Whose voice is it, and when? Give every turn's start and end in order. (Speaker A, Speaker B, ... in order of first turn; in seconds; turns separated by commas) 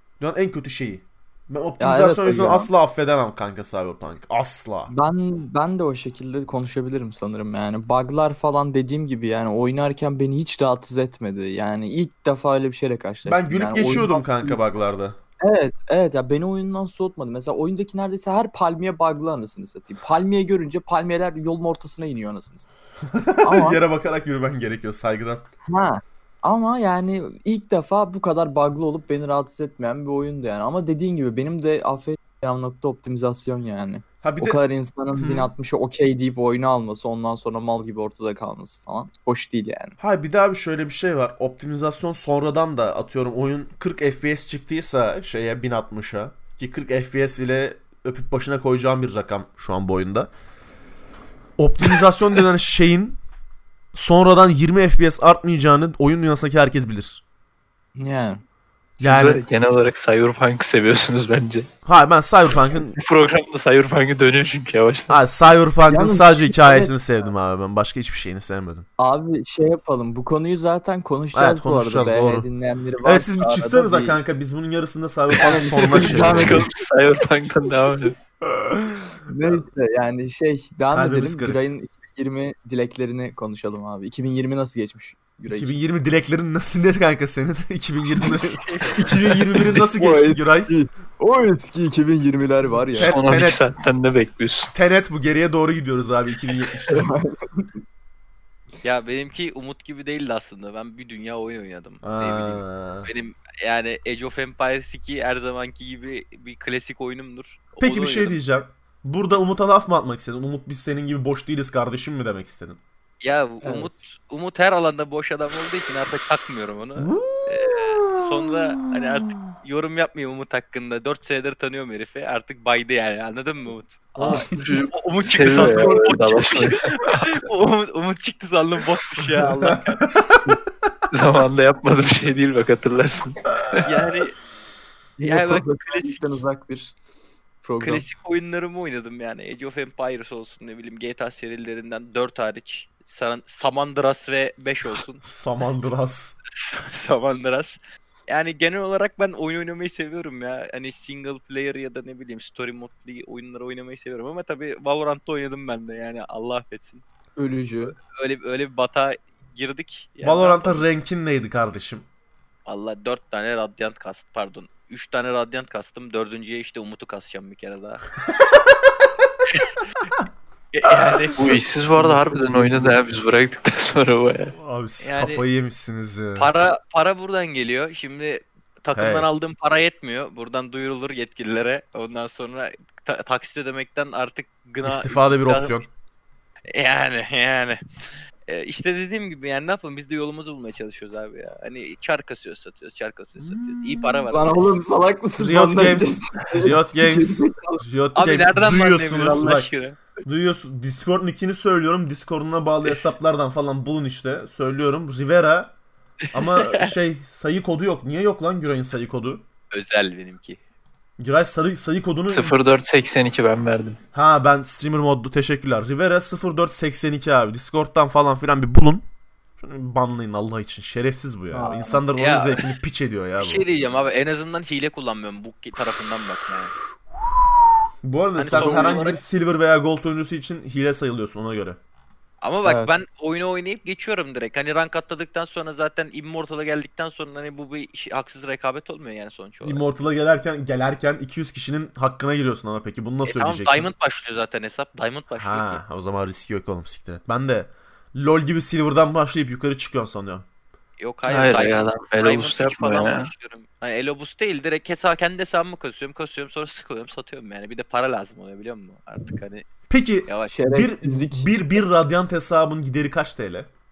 Speaker A: 0.2-4.9, Speaker B: 1.8-2.7, Speaker B: 4.9-14.6, Speaker A: 13.3-15.2, Speaker B: 15.4-22.7, Speaker A: 23.1-25.4, Speaker B: 23.4-23.8, Speaker B: 25.7-40.0, Speaker A: 34.2-34.6, Speaker A: 35.1-35.5, Speaker A: 40.0-50.3, Speaker A: 51.6-53.2, Speaker A: 53.9-57.2, Speaker B: 58.0-58.4, Speaker A: 59.0-59.4, Speaker C: 59.0-61.7, Speaker A: 61.9-63.0, Speaker C: 62.7-65.2, Speaker A: 65.1-68.9, Speaker B: 65.9-67.0, Speaker B: 69.0-74.2, Speaker A: 71.3-72.5, Speaker A: 73.0-76.7, Speaker B: 75.4-76.7, Speaker C: 75.4-78.2, Speaker A: 78.5-79.6, Speaker B: 79.3-85.7, Speaker A: 80.9-81.6, Speaker A: 85.5-90.7, Speaker B: 88.2-88.5, Speaker D: 88.5-89.0, Speaker B: 89.6-93.1, Speaker A: 93.0-93.6, Speaker C: 93.0-94.7, Speaker A: 94.7-97.1, Speaker B: 96.9-97.8, Speaker D: 98.8-108.4, Speaker A: 102.0-103.1, Speaker A: 107.8-112.8, Speaker D: 113.2-130.1, Speaker B: 113.6-113.9, Speaker A: 117.0-118.3, Speaker B: 124.2-124.6, Speaker C: 124.4-127.4, Speaker B: 125.5-126.2, Speaker A: 129.2-130.5, Speaker C: 131.1-133.9, Speaker D: 133.8-134.4, Speaker B: 135.2-136.9, Speaker D: 135.3-136.4, Speaker B: 137.6-138.1, Speaker D: 137.8-145.2, Speaker A: 145.2-146.4, Speaker D: 146.5-157.0, Speaker B: 157.4-157.9, Speaker D: 157.8-160.9, Speaker A: 160.2-162.1, Speaker D: 162.7-168.0, Speaker D: 170.7-171.6, Speaker C: 171.4-174.6, Speaker B: 172.0-173.0, Speaker A: 174.6-176.5, Speaker D: 175.0-175.4, Speaker D: 176.4-185.8, Speaker A: 178.9-179.3, Speaker A: 184.8-185.9, Speaker D: 186.7-187.8, Speaker D: 188.5-194.8, Speaker A: 193.4-194.3, Speaker B: 194.3-197.8, Speaker A: 195.4-199.7, Speaker D: 198.2-200.0, Speaker A: 200.2-205.7, Speaker A: 206.3-209.4, Speaker D: 206.4-206.9, Speaker D: 209.7-210.6, Speaker A: 211.2-212.6, Speaker C: 212.3-214.0, Speaker A: 214.1-219.1, Speaker A: 219.6-223.7, Speaker B: 221.5-222.0, Speaker D: 222.2-222.7, Speaker D: 223.4-226.8, Speaker A: 228.0-231.8, Speaker D: 228.4-229.2, Speaker B: 228.5-229.2, Speaker D: 232.4-239.8, Speaker B: 232.6-232.9, Speaker A: 239.6-243.9, Speaker D: 243.3-245.8, Speaker A: 245.3-250.4, Speaker D: 251.0-259.7, Speaker C: 251.3-253.3, Speaker A: 259.9-263.7, Speaker D: 260.3-260.5, Speaker B: 260.5-261.6